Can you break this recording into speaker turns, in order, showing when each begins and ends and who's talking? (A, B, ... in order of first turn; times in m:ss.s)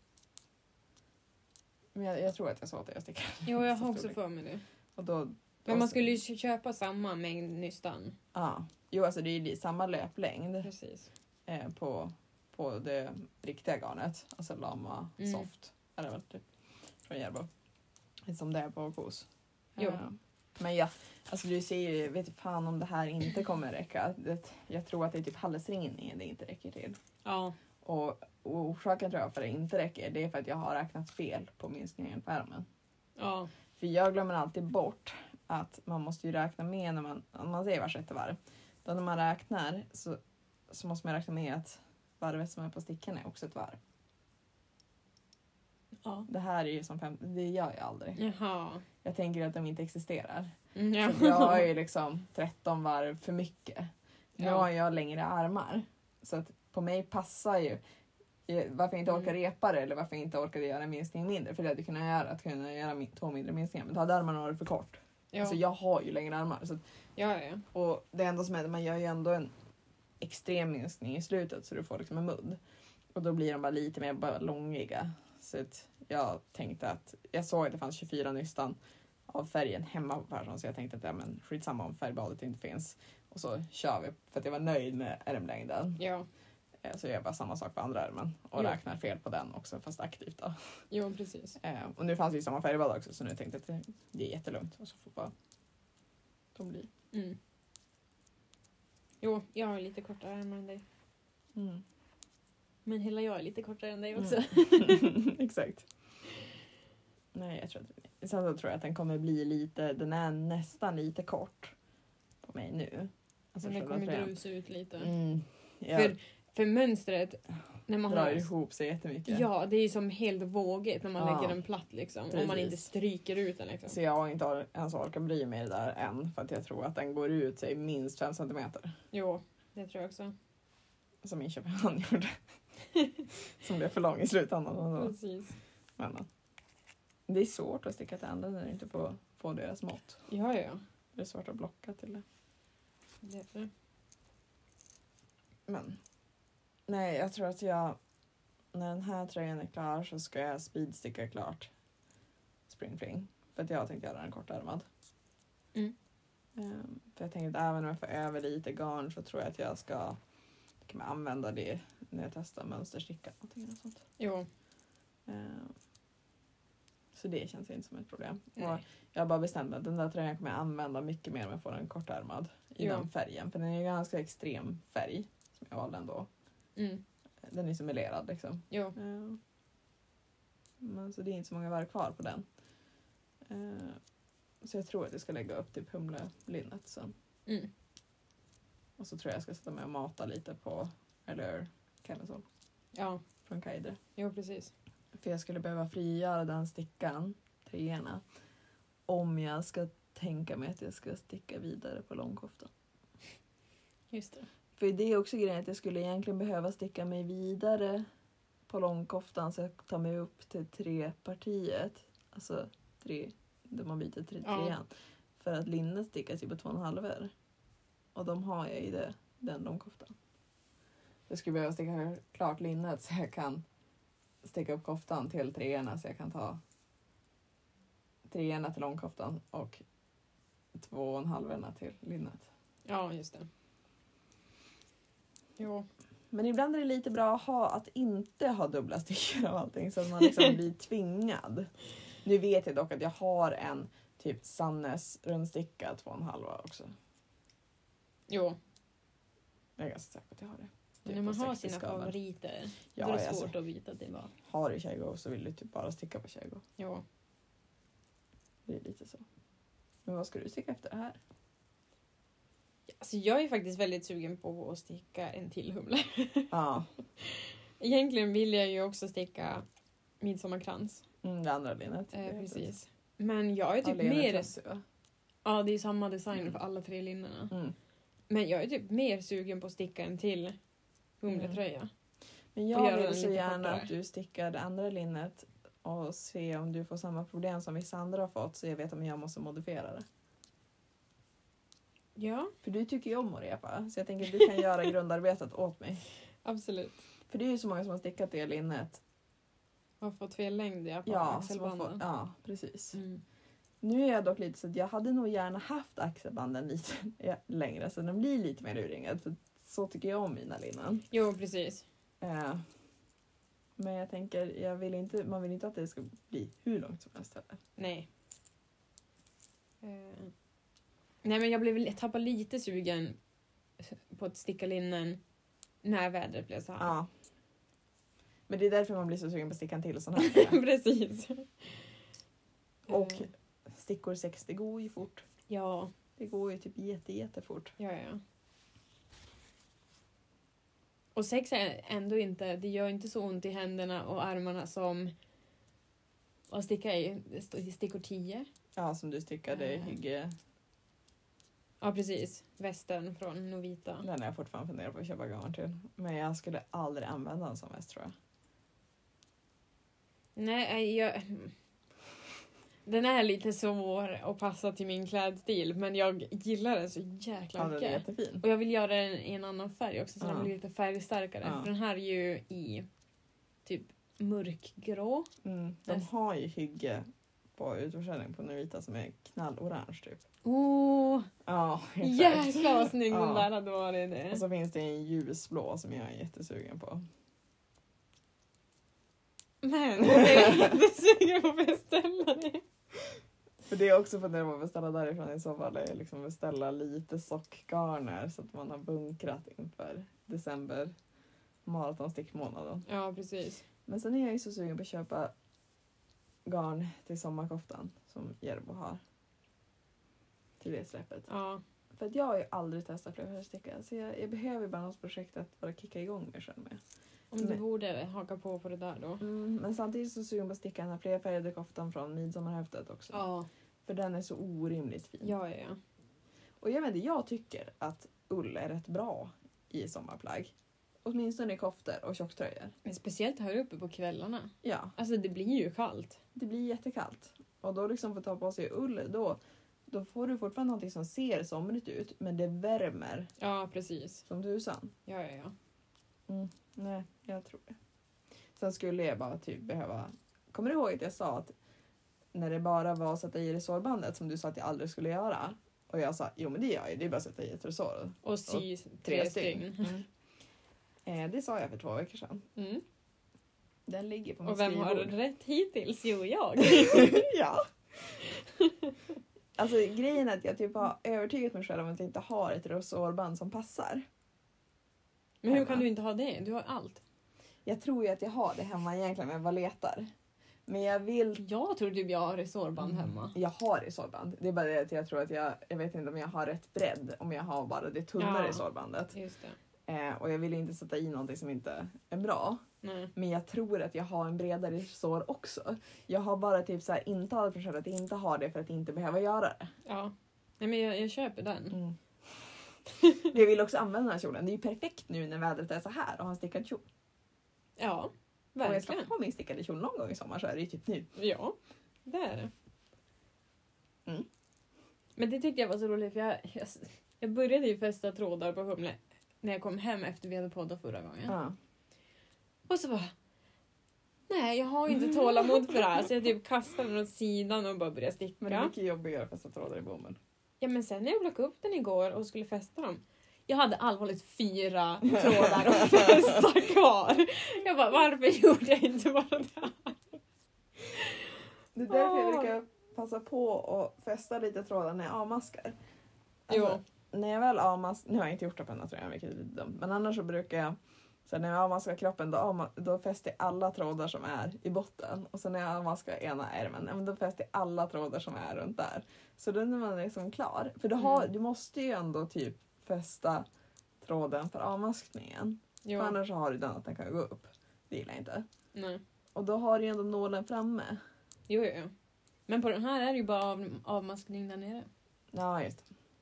0:01.9-0:04.2 A
0:03.4-0:04.6 B
0:05.0-0:06.2 A
0:05.7-0:08.2 B
0:08.3-0:10.7 A
0:10.6-0:11.1 B
0:11.5-0:16.4 A
0:15.2-0:15.5 B
0:17.0-0:17.5 A
0:18.3-0:27.0 A
0:27.2-0:27.5 B
0:27.8-0:32.6 A
0:33.2-0:33.5 B
0:33.8-0:40.2 A
0:40.7-0:43.8 A
0:46.3-0:48.2 A
0:48.2-0:48.8 B
0:49.0-0:57.8 A
0:50.7-0:51.7 B
0:54.4-0:54.7 B
0:58.5-1:06.8 A
1:05.3-1:05.6 B
1:07.2-1:07.6 B
1:07.7-1:09.5 A
1:10.2-1:12.6 A
1:13.1-1:18.8 A
1:19.3-1:26.0 A
1:26.0-1:26.3 B
1:26.8-1:30.5 A
1:30.9-1:31.6 B
1:31.6-1:35.3 A
1:36.5-1:36.9 A
1:37.1-1:37.4 B
1:39.2-1:40.8 B
1:41.5-1:41.8 A
1:42.8-1:45.2 B
1:44.2-1:45.9 A
1:47.3-1:51.7 A
1:52.4-1:54.3 A
1:53.6-1:55.1 B
1:55.0-1:56.1 A
1:55.9-1:58.5 B
1:58.1-1:59.4 A
1:59.3-2:04.0 B
2:01.2-2:01.6 A
2:02.3-2:02.9 A
2:03.9-2:08.9 A
2:09.1-2:10.3 B
2:11.2-2:12.4 A
2:13.0-2:13.2 B
2:13.6-2:15.1 A
2:15.0-2:15.5 B
2:16.0-2:16.3 A
2:17.3-2:20.2 A
2:20.3-2:20.8 B
2:21.1-2:22.2 A
2:23.2-2:23.7 B
2:25.7-2:26.0 A
2:26.9-2:28.0 A
2:28.7-2:31.7 A
2:32.7-2:34.8 A
2:36.6-2:40.2 A
2:40.8-2:44.0 A
2:44.2-2:44.5 B
2:45.3-2:45.7 A
2:47.1-2:56.3 A
2:52.8-2:53.1 B
2:56.8-2:57.0 B
2:57.4-2:59.4 A
2:58.7-2:59.0 B
3:00.8-3:02.4 A
3:03.5-3:04.0 A
3:04.6-3:07.1 A
3:09.0-3:12.4 A
3:12.9-3:13.2 B
3:13.4-3:14.0 A
3:14.2-3:14.7 B
3:15.2-3:18.2 A
3:19.1-3:22.7 A
3:24.1-3:24.4 B
3:24.8-3:28.0 A
3:28.7-3:34.9 A
3:34.4-3:34.8 B
3:35.4-3:37.3 A
3:38.1-3:40.1 A
3:41.3-3:43.6 A
3:44.4-3:46.6 A
3:48.3-3:49.8 A
3:50.7-3:52.4 A
3:52.9-3:53.5 B
3:55.6-3:55.9 B
3:56.3-4:01.7 A
4:00.2-4:00.5 B
4:02.2-4:06.9 A
4:08.3-4:08.6 B
4:09.8-4:12.1 A
4:11.0-4:14.3 B
4:12.9-4:13.5 A
4:14.4-4:16.6 A
4:16.8-4:17.0 B
4:18.7-4:19.2 A
4:20.0-4:21.2 A
4:23.0-4:26.5 B
4:26.5-4:26.9 A
4:27.2-4:29.6 B
4:30.2-4:31.0 B
4:31.2-4:32.7 A
4:32.1-4:34.5 B
4:33.8-4:34.8 A
4:35.4-4:37.5 B
4:38.3-4:40.6 B
4:41.2-4:41.9 B
4:41.3-4:41.6 A
4:42.5-4:50.0 A
4:42.7-4:43.9 B
4:52.2-4:52.5 B
4:52.6-4:56.0 A
4:56.4-4:57.0 B
4:57.3-4:59.0 A
5:00.0-5:02.0 B
5:01.0-5:03.0 A
5:02.9-5:03.2 B
5:03.8-5:11.0 A
5:11.1-5:11.8 B
5:12.2-5:12.6 A
5:13.8-5:17.6 A
5:17.8-5:18.1 B
5:19.8-5:20.3 B
5:21.2-5:23.2 B
5:23.8-5:25.2 B
5:25.8-5:26.9 B
5:26.8-5:27.1 A
5:28.5-5:30.6 A
5:30.2-5:31.9 B
5:32.9-5:35.2 A
5:32.9-5:33.2 B
5:35.5-5:35.9 B
5:36.2-5:37.7 A
5:37.8-5:38.2 B
5:41.1-5:45.1 B
5:46.5-5:48.5 B
5:48.8-5:50.3 A
5:49.5-5:49.9 B
5:51.8-5:54.0 B
5:54.0-5:58.1 A
6:00.4-6:01.5 B
6:02.8-6:12.9 B
6:07.6-6:08.4 A
6:10.2-6:10.5 A
6:11.4-6:11.7 A
6:13.6-6:15.3 B
6:15.4-6:20.2 A
6:20.4-6:21.3 B
6:21.4-6:23.5 A
6:22.0-6:24.4 B
6:24.3-6:27.0 A
6:29.6-6:32.6 B
6:30.0-6:30.8 A
6:33.7-6:40.9 A
6:41.6-6:42.8 A
6:42.9-6:43.6 B
6:43.9-6:45.3 A
6:46.4-6:49.0 A
6:50.6-6:51.3 A
6:51.3-6:51.6 B
6:51.9-6:56.8 A
6:57.3-6:59.2 B
6:59.2-7:03.2 A
7:03.1-7:03.5 B
7:03.8-7:05.3 A
7:05.2-7:05.8 B
7:06.6-7:10.5 A
7:11.0-7:12.7 A
7:12.8-7:16.2 B
7:14.6-7:14.9 A
7:16.3-7:23.3 A
7:23.4-7:24.2 B
7:24.3-7:24.9 A
7:25.1-7:25.5 B
7:26.3-7:27.8 A
7:28.6-7:31.5 A
7:32.3-7:40.0 A
7:38.2-7:40.0 B
7:41.0-7:42.5 A
7:42.6-7:42.8 B
7:43.9-7:45.1 A
7:44.4-7:47.3 B
7:46.6-7:48.2 A
7:48.2-7:49.0 B
7:49.6-7:54.0 A
7:55.4-7:57.0 B
7:55.5-7:55.8 A
7:57.6-8:00.1 A
8:00.7-8:01.4 A
8:01.4-8:03.3 B
8:03.3-8:09.1 A
8:08.2-8:09.6 B
8:09.9-8:12.6 A
8:12.8-8:13.1 B
8:13.1-8:19.7 A
8:19.8-8:21.8 B
8:21.7-8:22.4 A
8:23.2-8:26.8 A
8:27.8-8:29.1 B
8:28.6-8:31.1 A
8:31.2-8:32.5 B
8:35.2-8:41.4 B
8:41.3-8:41.6 A
8:42.7-8:43.1 B
8:44.3-8:48.7 B
8:48.4-8:50.2 A
8:50.6-9:00.0 B
9:00.9-9:01.3 B
9:01.7-9:05.8 A
9:01.9-9:02.5 B
9:06.5-9:23.4 A
9:06.5-9:06.8 B
9:21.0-9:21.3 B
9:24.0-9:28.4 A
9:25.8-9:26.2 B
9:28.7-9:29.0 B
9:29.3-9:31.0 A
9:31.5-9:31.9 B
9:32.5-9:34.9 B
9:35.3-9:35.8 A